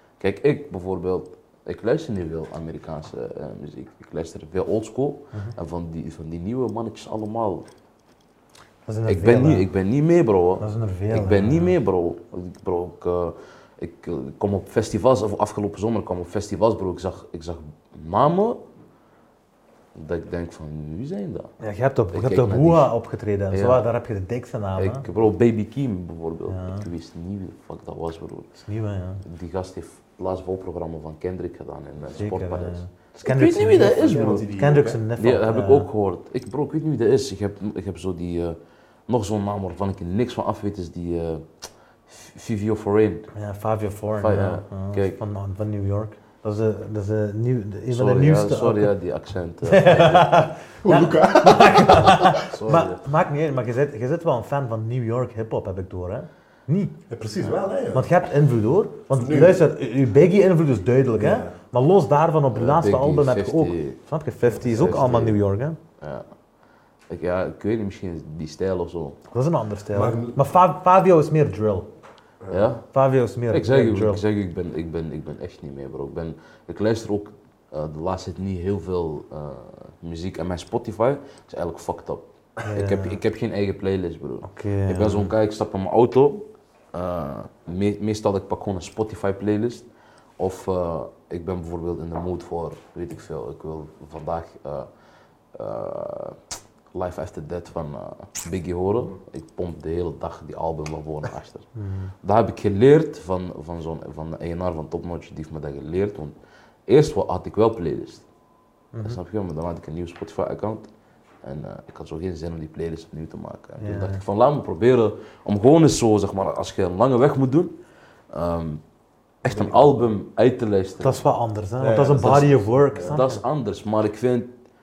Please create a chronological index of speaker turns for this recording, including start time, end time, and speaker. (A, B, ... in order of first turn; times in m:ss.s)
0:00.2-0:07.7 A
0:08.9-0:09.7 B
0:09.1-0:18.6 A
0:10.6-0:11.8 B
0:20.0-0:21.5 A
0:21.6-0:25.0 B
0:22.1-0:22.9 A
0:23.5-0:23.8 A
0:24.8-0:28.5 A
0:26.5-0:26.9 B
0:28.6-0:29.2 B
0:29.2-0:34.5 A
0:32.2-0:35.9 B
0:33.8-0:35.0 C
0:35.2-0:43.3 A
0:43.3-0:48.9 B
0:44.2-0:45.2 A
0:47.9-0:50.5 A
0:49.6-0:57.0 B
0:50.8-0:52.3 C
0:52.3-0:53.0 A
0:57.1-0:58.1 C
0:57.9-1:05.8 B
0:59.1-0:59.7 C
1:01.2-1:01.5 C
1:02.5-1:04.0 A
1:04.6-1:05.4 A
1:06.0-1:06.3 A
1:07.1-1:09.2 A
1:09.3-1:11.9 B
1:09.9-1:10.4 C
1:12.4-1:12.7 C
1:12.5-1:12.9 A
1:12.9-1:14.2 B
1:13.5-1:29.9 A
1:22.6-1:23.2 B
1:24.4-1:25.3 B
1:30.4-1:34.9 A
1:35.5-1:36.4 A
1:36.9-1:41.7 A
1:41.8-1:42.1 B
1:42.2-1:46.4 A
1:46.9-1:48.2 A
1:48.9-1:49.2 B
1:49.0-1:50.9 A
1:51.4-1:57.8 A
1:53.8-1:54.2 B
1:58.3-1:58.8 A
1:59.4-2:01.2 A
1:59.5-2:00.0 C
2:01.0-2:03.4 B
2:01.8-2:03.1 C
2:02.2-2:04.6 A